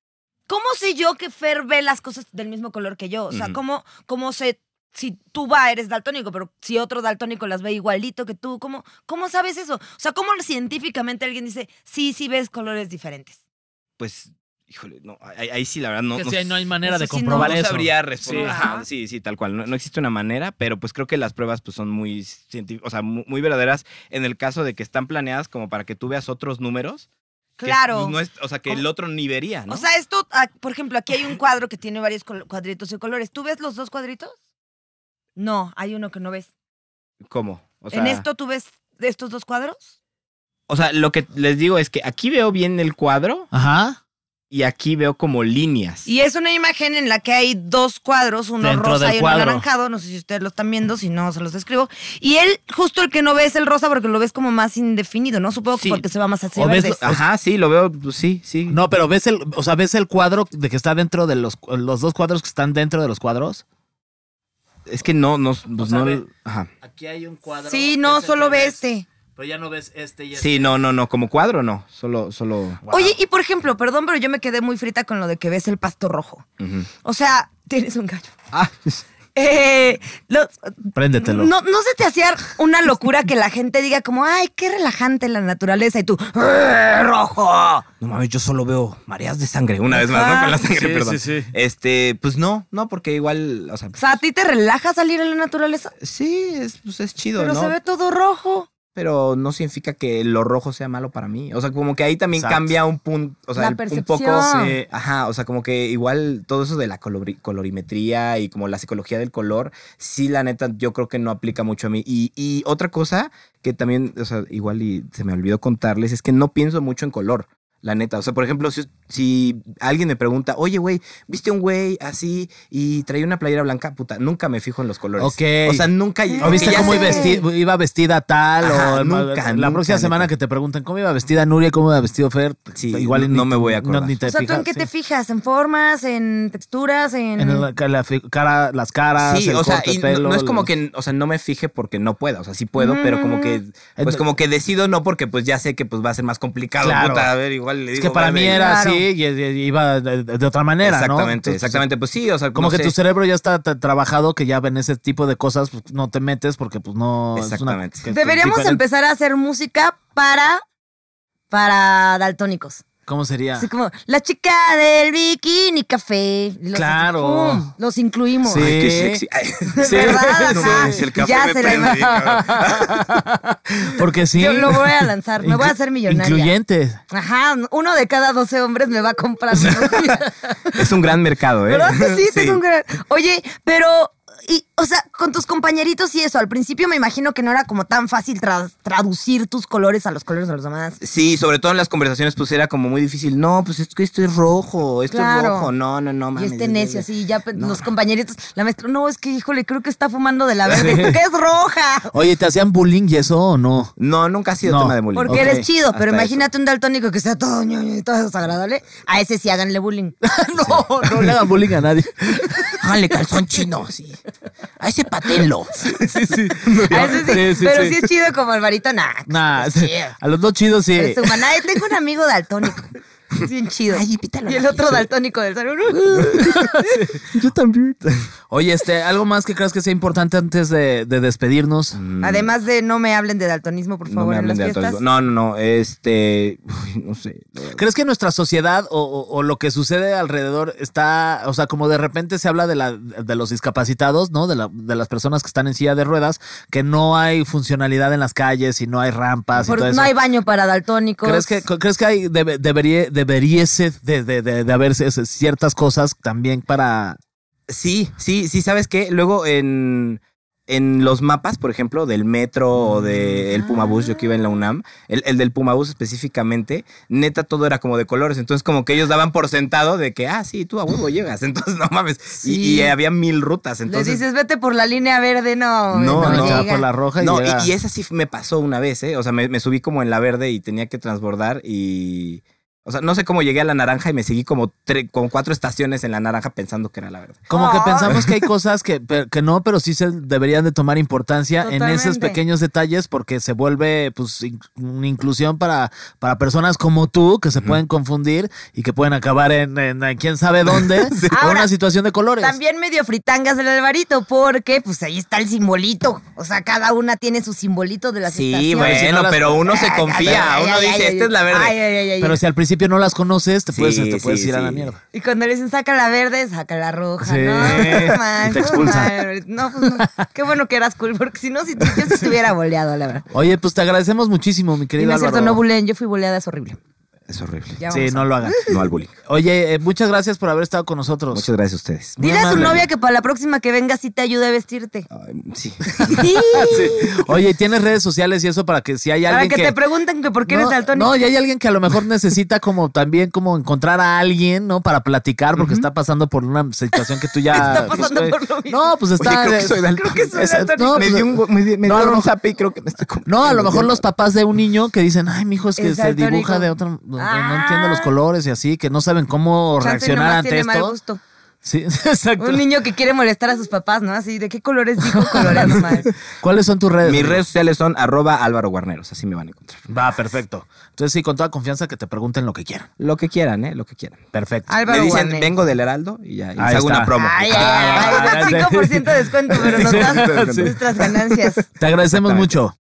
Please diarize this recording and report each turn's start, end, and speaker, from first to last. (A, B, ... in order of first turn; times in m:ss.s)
0:00.5-0:13.4 A
0:03.3-0:03.6 B
0:14.0-0:16.7 B
0:16.1-0:18.6 C
0:16.8-0:18.8 A
0:17.3-0:27.1 B
0:27.6-0:28.8 A
0:27.6-0:29.8 B
0:29.7-0:34.3 A
0:35.4-0:36.5 A
0:37.3-0:38.2 B
0:37.9-0:39.9 A
0:40.7-0:43.5 B
0:43.5-0:44.0 C
0:44.5-0:46.1 B
0:46.0-0:57.0 A
0:48.6-0:49.6 C
0:55.7-0:56.0 B
0:56.6-0:57.2 C
0:57.0-0:58.8 B
0:58.7-1:03.6 C
1:04.8-1:06.7 B
1:05.8-1:06.2 C
1:06.8-1:08.8 C
1:07.6-1:09.1 A
1:09.3-1:10.8 C
1:10.4-1:12.9 B
1:12.8-1:13.1 C
1:12.9-1:16.4 A
1:16.6-1:16.9 B
1:17.0-1:18.3 A
1:18.5-1:19.0 B
1:19.3-1:27.8 A
1:20.9-1:21.5 C
1:28.0-1:34.0 B
1:29.9-1:30.6 A
1:30.6-1:31.5 C
1:34.0-1:35.9 A
1:36.0-1:37.8 B
1:37.4-1:38.7 A
1:38.9-2:07.4 B
1:42.3-1:42.8 C
1:43.6-1:44.8 A
1:44.4-1:44.8 C
2:05.2-2:14.9 C
2:06.3-2:07.4 A
2:08.6-2:10.3 B
2:12.7-2:14.2 B
2:14.3-2:17.6 A
2:17.4-2:20.7 C
2:19.2-2:28.8 B
2:22.8-2:23.6 A
2:24.0-2:24.3 C
2:26.8-2:27.3 C
2:27.9-2:31.8 C
2:28.5-2:29.0 A
2:30.8-2:32.9 B
2:32.5-2:38.8 C
2:37.3-2:38.1 B
2:38.0-2:40.6 A
2:41.5-2:42.9 A
2:43.0-2:43.7 C
2:43.6-2:48.7 A
2:46.7-2:47.7 C
2:48.4-2:49.2 C
2:48.4-2:53.2 B
2:49.7-2:52.2 A
2:49.8-2:57.0 C
2:54.3-2:56.5 A
2:57.1-3:00.9 A
2:59.6-3:00.2 B
3:00.7-3:02.6 B
3:01.6-3:11.0 A
3:11.0-3:17.8 B
3:15.1-3:15.7 A
3:16.4-3:22.1 A
3:20.7-3:21.2 C
3:22.1-3:23.9 C
3:24.0-3:26.5 B
3:24.6-3:25.7 C
3:25.1-3:30.2 A
3:30.2-3:32.8 C
3:30.6-3:31.2 B
3:32.8-3:34.2 B
3:34.8-3:37.4 B
3:35.8-3:38.1 C
3:36.9-3:40.2 A
3:39.3-3:41.5 C
3:40.9-3:42.9 A
3:43.4-3:46.7 A
3:43.9-3:45.1 B
3:46.1-3:48.3 B
3:46.8-3:47.2 C
3:48.5-3:52.0 C
3:51.9-3:52.6 B
3:52.2-3:55.0 A
3:54.1-3:57.8 B
3:57.7-4:10.1 C
4:09.5-4:09.8 B
4:09.7-4:11.6 A
4:11.2-4:17.2 C
4:17.7-4:34.2 B
4:22.8-4:23.4 C
4:32.4-4:32.9 A
4:33.9-4:36.8 A
4:35.9-4:47.5 B
4:36.1-4:37.7 C
4:47.5-5:02.6 C
4:47.5-4:48.2 A
4:48.0-4:48.3 B
4:51.6-4:52.4 A
5:00.7-5:01.4 B
5:01.3-5:01.7 A
5:02.4-5:12.4 A
5:08.2-5:11.8 B
5:08.7-5:09.6 C
5:12.2-5:15.0 C
5:13.7-5:14.9 B
5:15.1-5:23.2 A
5:17.2-5:20.3 C
5:17.6-5:18.2 B
5:23.3-5:25.6 C
5:25.0-5:26.8 A
5:27.3-5:27.8 B
5:27.8-5:28.7 A
5:27.9-5:31.5 C
5:28.6-5:29.1 B
5:31.3-5:32.8 B
5:32.2-5:35.1 A
5:32.2-5:32.9 C
5:35.1-5:36.3 B
5:36.0-5:39.8 C
5:36.0-5:37.2 A
5:39.3-5:41.1 A
5:40.5-5:52.3 C
5:45.6-5:45.9 B
5:47.5-5:48.9 A
5:47.5-5:48.1 B
5:49.2-5:54.0 B
5:49.8-5:51.2 A
5:53.2-6:01.0 C
5:55.8-5:58.1 A
5:59.8-6:01.2 A
6:01.6-6:02.6 C
6:02.4-6:06.1 A
6:05.0-6:07.4 C
6:07.0-6:09.9 B
6:09.9-6:12.9 C
6:13.0-6:14.2 B
6:14.3-6:14.8 C
6:14.7-6:15.5 A
6:14.8-6:18.7 B
6:16.6-6:20.8 C
6:17.1-6:21.6 A
6:19.5-6:22.5 B
6:21.8-6:22.7 C